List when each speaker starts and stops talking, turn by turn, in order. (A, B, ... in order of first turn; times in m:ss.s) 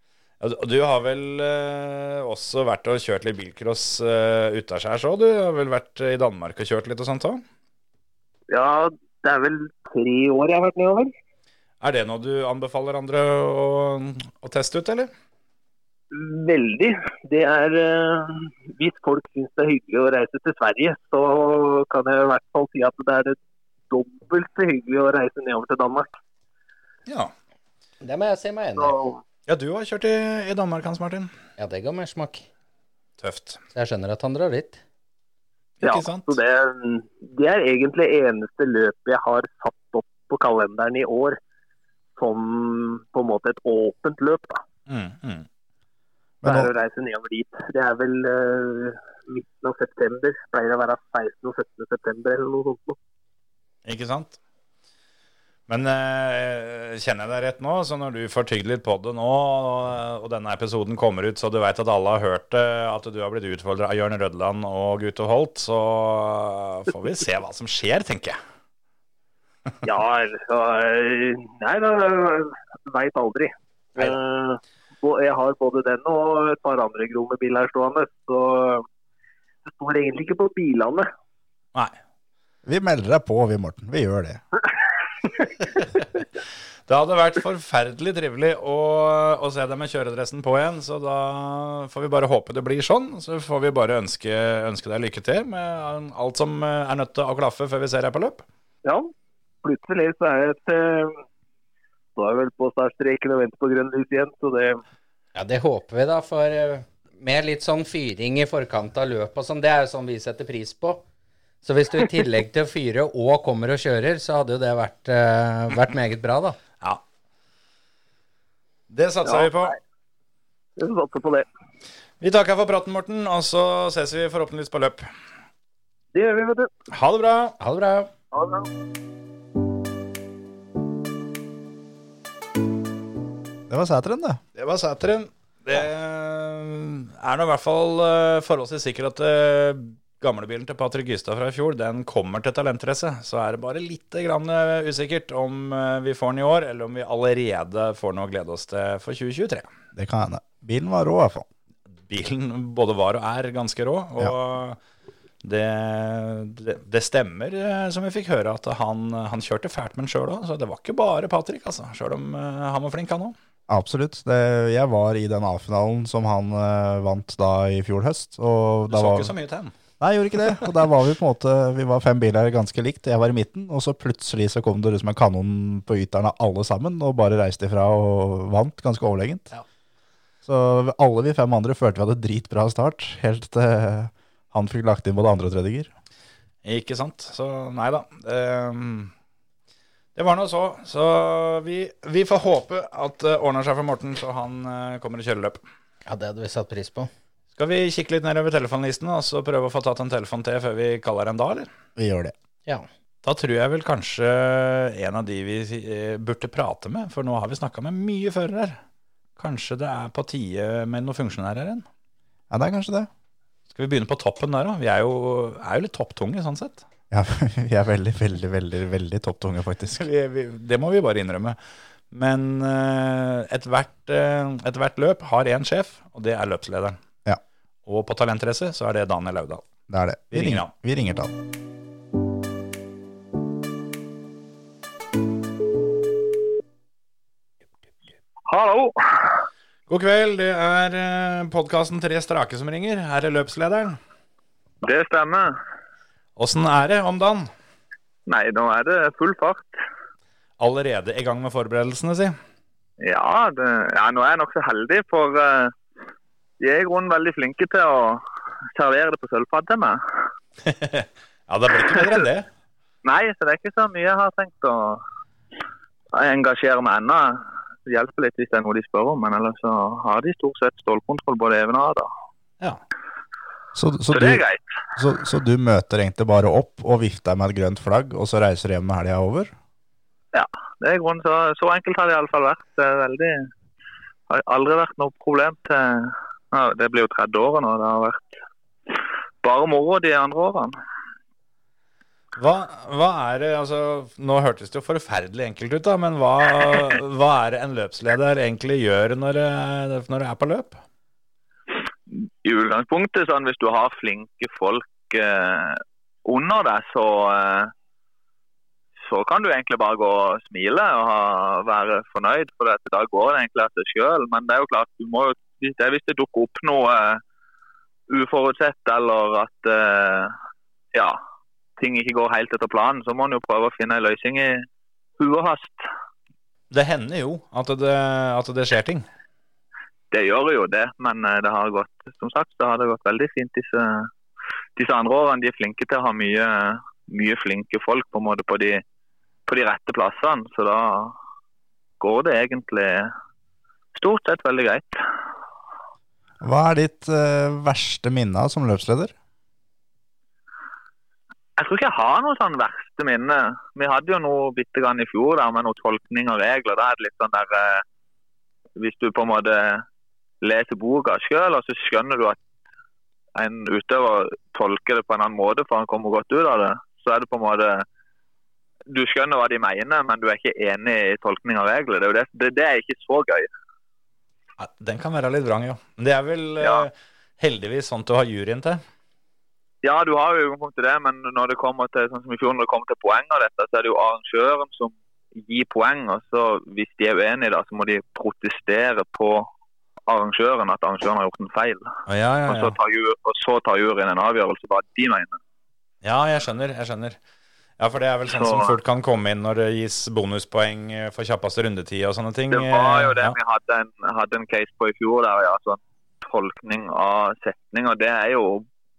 0:00.4-0:07.4 A
0:08.5-0:11.1 B
0:11.8-0:15.1 A
0:16.1-0:23.4 B
0:23.9-0:26.1 B
0:27.1-0:27.3 A
0:28.0-0:28.9 C
0:28.8-0:29.2 B
0:29.5-0:31.3 A
0:31.6-0:32.5 C
0:33.2-0:33.6 A
0:33.7-0:34.8 C
0:35.8-0:36.4 A
0:35.8-0:41.4 B
0:42.2-0:44.6 B
0:44.9-0:45.5 A
0:46.4-0:46.7 D
0:46.4-0:53.0 B
0:53.8-0:54.4 A
0:55.7-1:08.4 A
1:09.8-1:18.8 B
1:19.7-1:21.1 B
1:22.6-1:24.4 D
1:26.9-1:38.4 A
1:38.8-1:39.1 B
1:39.6-1:41.2 B
1:42.2-1:44.8 B
1:45.3-1:51.0 C
1:51.6-1:56.6 C
1:58.9-1:59.8 A
1:59.2-1:59.7 B
2:00.8-2:01.4 B
2:02.2-2:05.1 A
2:06.1-2:06.7 B
2:06.9-2:07.6 A
2:07.6-2:08.1 C
2:08.3-2:08.7 B
2:13.7-2:14.4 D
2:14.6-2:29.6 A
2:29.9-2:31.5 D
2:32.1-2:34.8 A
2:35.4-2:43.3 A
2:43.7-2:49.3 D
2:48.9-2:49.7 A
2:50.0-2:59.5 D
3:00.4-3:05.9 D
3:06.6-3:09.1 A
3:10.2-3:15.6 A
3:16.0-3:17.1 C
3:17.6-3:21.7 A
3:22.0-3:22.3 D
3:23.2-3:28.8 A
3:29.4-3:31.8 A
3:32.5-3:33.1 D
3:33.7-3:36.8 A
3:37.1-3:40.0 D
3:39.9-3:41.6 A
3:42.1-3:47.0 A
3:47.8-3:49.6 A
3:49.9-3:51.3 D
3:50.3-3:50.7 A
3:58.5-3:59.4 E
3:59.9-4:04.0 A
4:04.8-4:05.6 E
4:06.4-4:07.5 A
4:08.3-4:09.8 E
4:10.6-4:12.3 A
4:13.0-4:15.7 E
4:16.6-4:20.3 E
4:20.6-4:22.5 A
4:21.9-4:22.1 E
4:23.0-4:25.0 E
4:26.1-4:32.1 E
4:33.8-4:34.4 D
4:34.1-4:34.6 E
4:35.0-4:39.5 D
4:40.3-4:43.5 E
4:44.3-4:48.3 E
4:48.9-4:50.7 E
4:52.4-5:00.8 A
5:02.4-5:07.7 E
5:09.0-5:17.2 E
5:18.1-5:20.4 E
5:21.8-5:24.6 E
5:25.2-5:25.9 E
5:26.7-5:29.0 A
5:30.1-5:34.1 E
5:34.8-5:38.8 E
5:39.4-5:41.2 E
5:42.0-5:43.1 E
5:43.9-5:45.0 E
5:46.4-5:49.1 D
5:51.6-5:57.8 E
5:58.8-5:59.8 E
6:00.4-6:02.4 E
6:03.3-6:07.8 E
6:08.9-6:13.5 E
6:14.6-6:18.8 A
6:16.6-6:16.9 E
6:19.8-6:29.5 E
6:30.1-6:31.9 E
6:32.1-6:32.7 A
6:32.5-6:35.4 E
6:36.0-6:37.2 A
6:37.8-6:43.4 A
6:38.3-6:38.8 E
6:42.5-6:48.6 E